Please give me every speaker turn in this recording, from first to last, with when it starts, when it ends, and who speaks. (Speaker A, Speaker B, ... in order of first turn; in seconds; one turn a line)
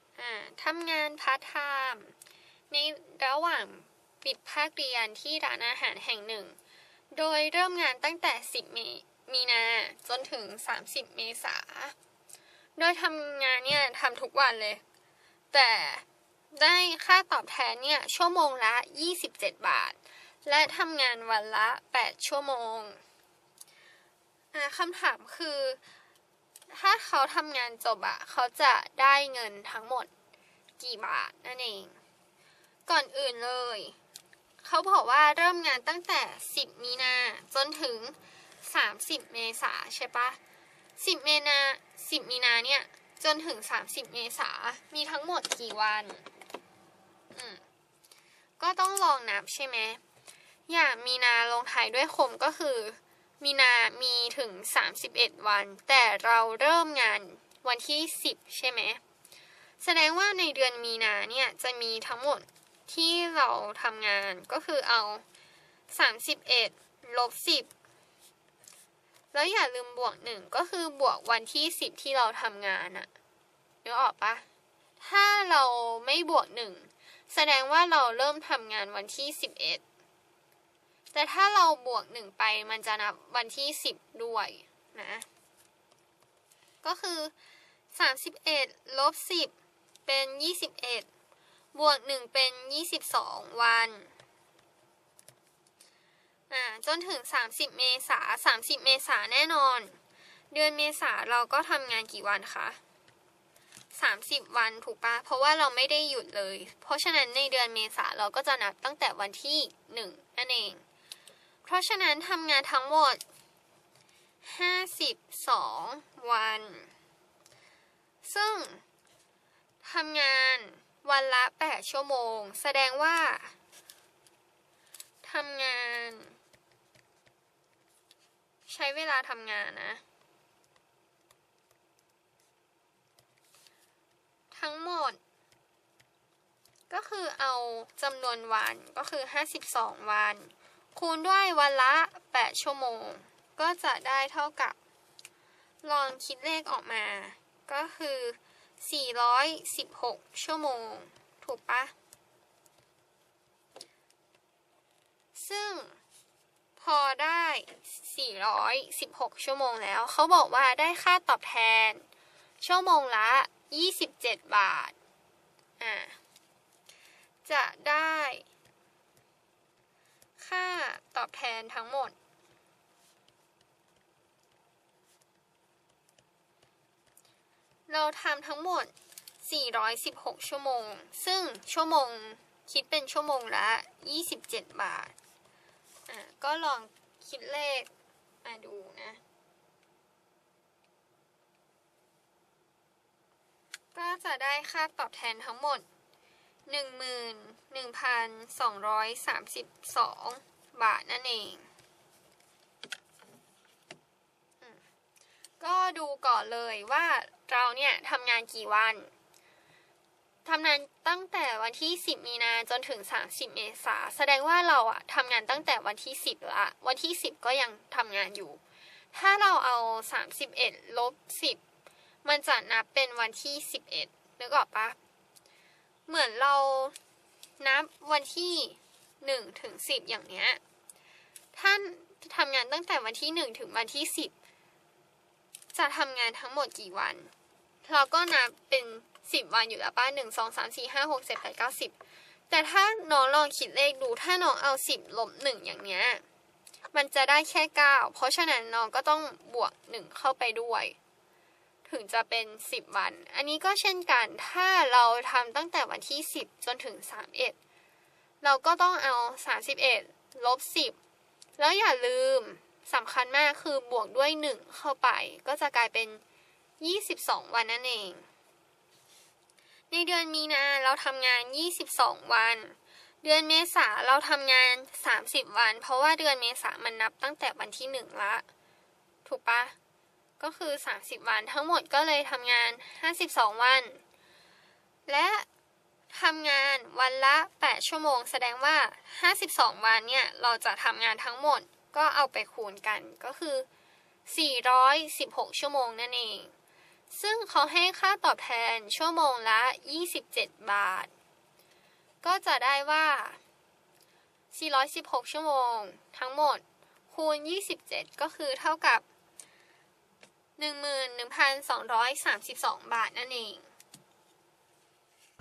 Speaker A: 0.2-2.1
Speaker A: 2.7-6.6
Speaker A: 7.1-11.9
Speaker A: 12.8-14.8
Speaker A: 15.5-23.0
Speaker A: 24.5-25.8
Speaker A: 26.7-30.1
Speaker A: 30.8-32.0
Speaker A: 32.9-34.0
Speaker A: 34.6-40.4
Speaker A: 41.0-46.2
Speaker A: 47.3-47.6
Speaker A: 48.6-50.0
Speaker A: 50.7-59.0
Speaker A: 59.8-65.2
Speaker A: 65.9-67.7
Speaker A: 69.3-73.1
Speaker A: 73.8-74.5
Speaker A: 75.0-79.8
Speaker A: 81.1-85.3
Speaker A: 86.8-87.3
Speaker A: 87.9-89.5
Speaker A: 90.1-91.1
Speaker A: 91.7-94.1
Speaker A: 96.5-100.0
Speaker A: 100.5-102.8
Speaker A: 103.9-110.8
Speaker A: 111.6-113.2
Speaker A: 114.4-116.9
Speaker A: 118.2-118.8
Speaker A: 119.8-123.5
Speaker A: 125.2-126.4
Speaker A: 128.7-130.0
Speaker A: 134.5-135.2
Speaker A: 136.9-144.8
Speaker A: 145.8-151.9
Speaker A: 155.3-156.0
Speaker A: 156.8-162.0
Speaker A: 162.6-164.9
Speaker A: 165.8-166.2
Speaker A: 167.4-168.5
Speaker A: 170.4-172.2
Speaker A: 177.9-185.1
Speaker A: 186.1-187.9
Speaker A: 188.4-189.2
Speaker A: 193.9-195.8
Speaker A: 196.7-201.7
Speaker A: 205.6-209.1
Speaker A: 210.4-218.6
Speaker A: 219.1-221.6
Speaker A: 222.2-225.0
Speaker A: 226.1-226.9
Speaker A: 227.6-230.6
Speaker A: 231.5-234.3
Speaker A: 235.7-237.3
Speaker A: 237.8-241.9
Speaker A: 242.5-246.2
Speaker A: 246.9-251.0
Speaker A: 251.8-257.6
Speaker A: 258.4-261.0
Speaker A: 261.6-266.2
Speaker A: 266.8-268.3
Speaker A: 269.9-278.5
Speaker A: 279.2-279.8
Speaker A: 280.4-284.0
Speaker A: 285.1-285.5
Speaker A: 286.1-293.7
Speaker A: 294.3-296.5
Speaker A: 297.1-301.1
Speaker A: 302.2-303.4
Speaker A: 304.5-309.1
Speaker A: 310.6-313.7